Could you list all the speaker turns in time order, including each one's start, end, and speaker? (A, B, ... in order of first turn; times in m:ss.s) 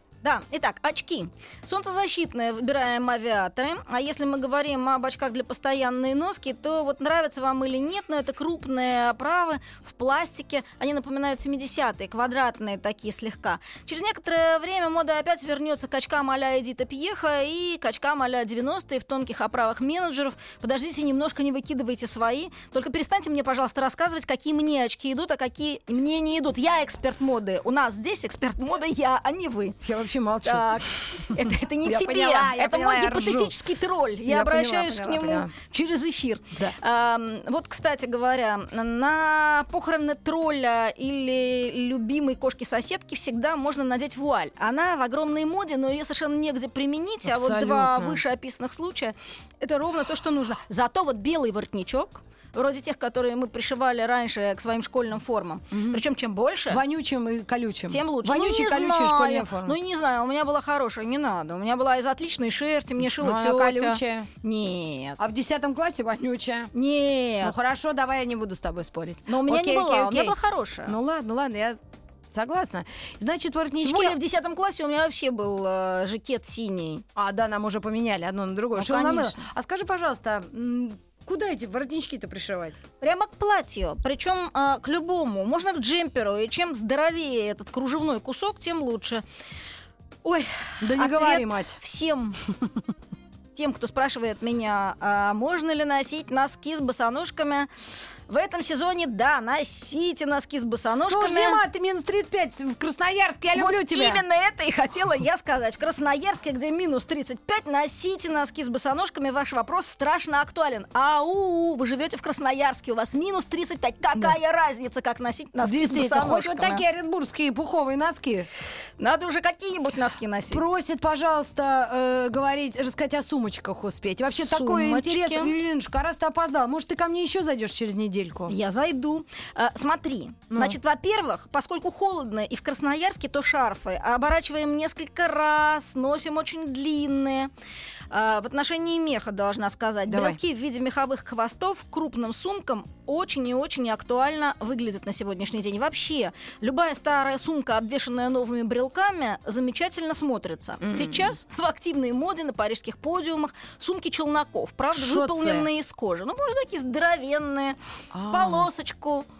0:00.2-0:29.8 A
0:29.8-0:33.6 B
0:30.4-0:56.8 A
0:34.3-0:35.5 B
0:47.2-0:48.2 B
0:55.7-0:56.0 B
0:56.7-0:59.8 B
0:57.9-1:05.2 A
1:03.1-1:04.3 B
1:05.2-1:06.7 B
1:06.7-1:07.5 A
1:07.4-1:11.8 B
1:09.3-1:10.9 A
1:12.3-1:14.2 B
1:13.8-1:17.0 A
1:17.2-1:22.8 B
1:18.7-1:19.4 A
1:23.0-1:29.2 A
1:30.2-1:32.4 A
1:30.8-1:31.8 B
1:33.5-1:37.7 A
1:38.3-1:41.6 A
1:41.1-1:44.2 B
1:43.5-1:56.8 A
1:55.6-1:58.5 B
1:59.0-2:00.6 A
2:00.5-2:08.5 B
2:04.2-2:05.5 A
2:08.5-2:17.5 A
2:10.5-2:10.8 B
2:18.1-2:39.2 A
2:20.1-2:20.4 B
2:30.8-2:31.3 B
2:34.9-2:35.7 B
2:38.1-2:38.7 B